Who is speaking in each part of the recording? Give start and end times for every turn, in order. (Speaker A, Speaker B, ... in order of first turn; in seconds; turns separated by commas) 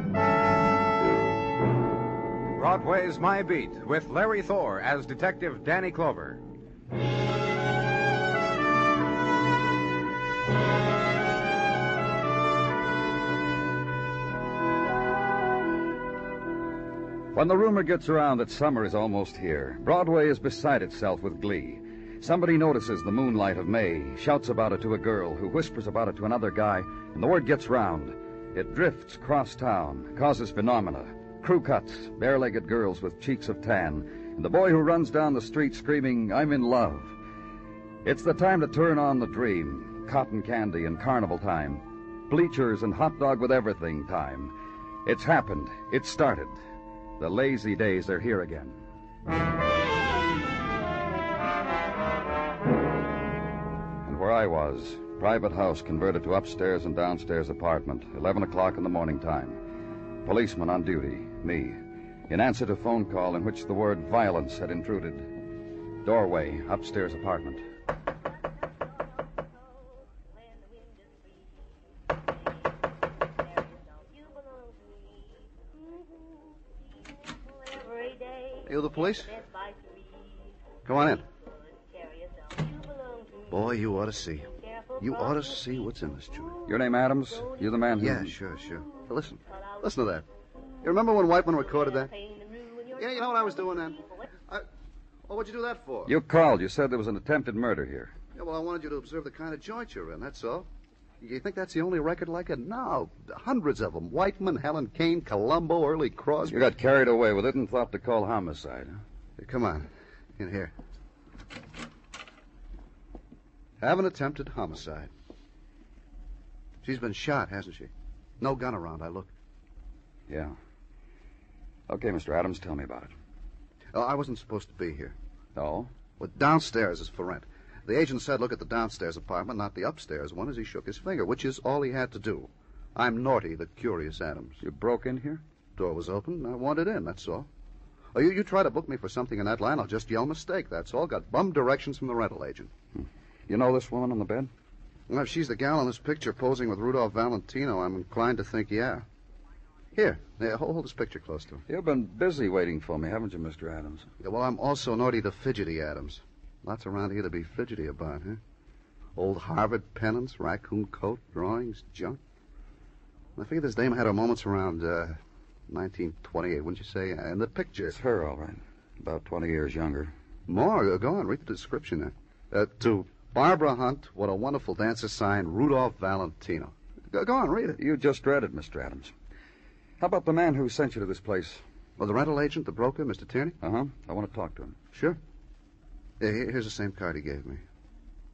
Speaker A: 2.5-6.4, Speaker B: 17.3-37.1, Speaker B: 38.0-44.5, Speaker B: 45.0-46.6, Speaker B: 47.2-48.8, Speaker B: 54.0-59.6, Speaker B: 60.2-65.3, Speaker B: 66.0-67.6, Speaker C: 78.6-79.5, Speaker C: 80.8-81.3, Speaker C: 83.5-86.6, Speaker B: 86.6-88.3, Speaker C: 88.0-90.3, Speaker C: 90.8-92.2, Speaker C: 92.8-94.7, Speaker C: 95.3-96.1, Speaker B: 96.0-98.2, Speaker C: 98.3-100.7, Speaker C: 101.2-106.7, Speaker B: 106.5-109.0, Speaker C: 109.4-110.7, Speaker C: 113.8-115.1, Speaker C: 116.8-119.3, Speaker B: 120.3-120.5, Speaker B: 121.9-123.1, Speaker C: 123.9-125.2, Speaker B: 125.5-125.9, Speaker C: 126.2-134.6, Speaker B: 134.6-135.4, Speaker C: 135.8-137.5, Speaker C: 138.1-142.7, Speaker B: 142.9-144.5, Speaker C: 145.1-149.0, Speaker C: 149.9-151.6, Speaker B: 151.7-154.1, Speaker C: 154.2-158.4, Speaker C: 159.2-162.2, Speaker C: 163.3-165.2, Speaker C: 165.7-167.9, Speaker B: 167.9-170.1, Speaker C: 170.5-177.8, Speaker B: 177.8-179.1, Speaker B: 180.0-181.6, Speaker C: 182.0-183.6, Speaker B: 183.6-184.8, Speaker C: 184.9-185.2, Speaker C: 186.2-187.6